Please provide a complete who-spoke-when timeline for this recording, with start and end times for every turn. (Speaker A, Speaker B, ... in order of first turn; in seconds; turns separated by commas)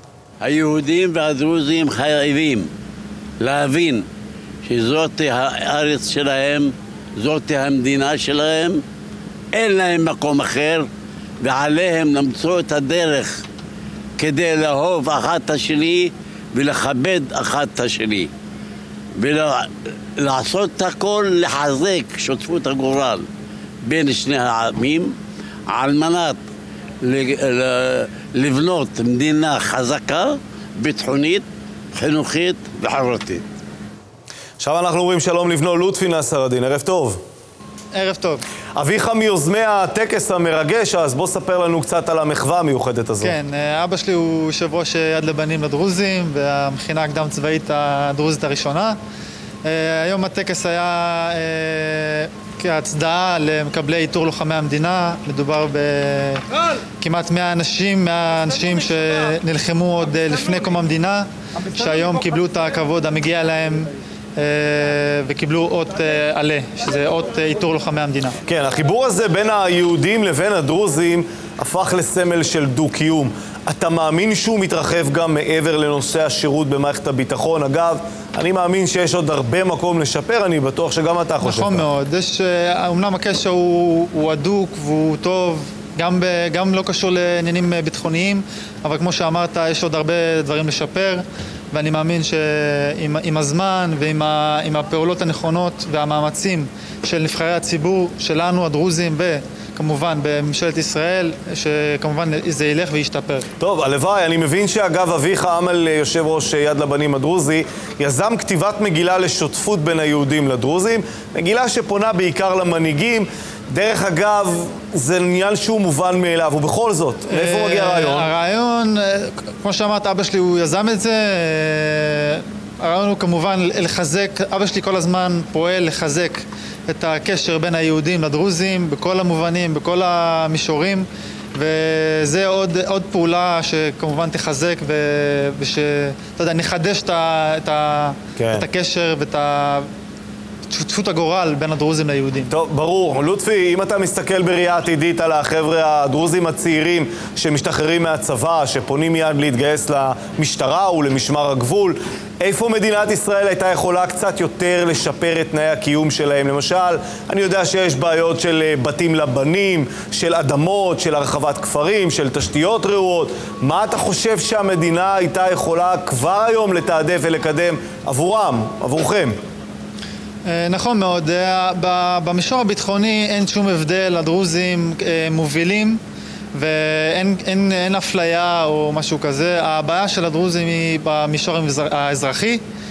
Speaker A: 0.4-2.7, Speaker A: 3.4-4.1, Speaker A: 4.7-8.8, Speaker A: 9.5-10.9, Speaker A: 11.4-13.4, Speaker A: 14.2-18.3, Speaker A: 19.2-23.3, Speaker A: 23.8-25.1, Speaker A: 25.7-26.4, Speaker A: 27.0-33.4, Speaker B: 34.6-37.2, Speaker C: 37.9-38.4, Speaker B: 38.8-43.4, Speaker C: 43.2-49.0, Speaker C: 49.6-56.4, Speaker C: 57.0-68.4, Speaker B: 68.5-81.9, Speaker C: 81.4-103.5, Speaker B: 103.6-118.3, Speaker C: 117.3-139.9, Speaker B: 138.4-138.7, Speaker C: 140.7-142.5, Speaker B: 142.5-169.4, Speaker C: 170.4-176.0, Speaker C: 176.5-182.6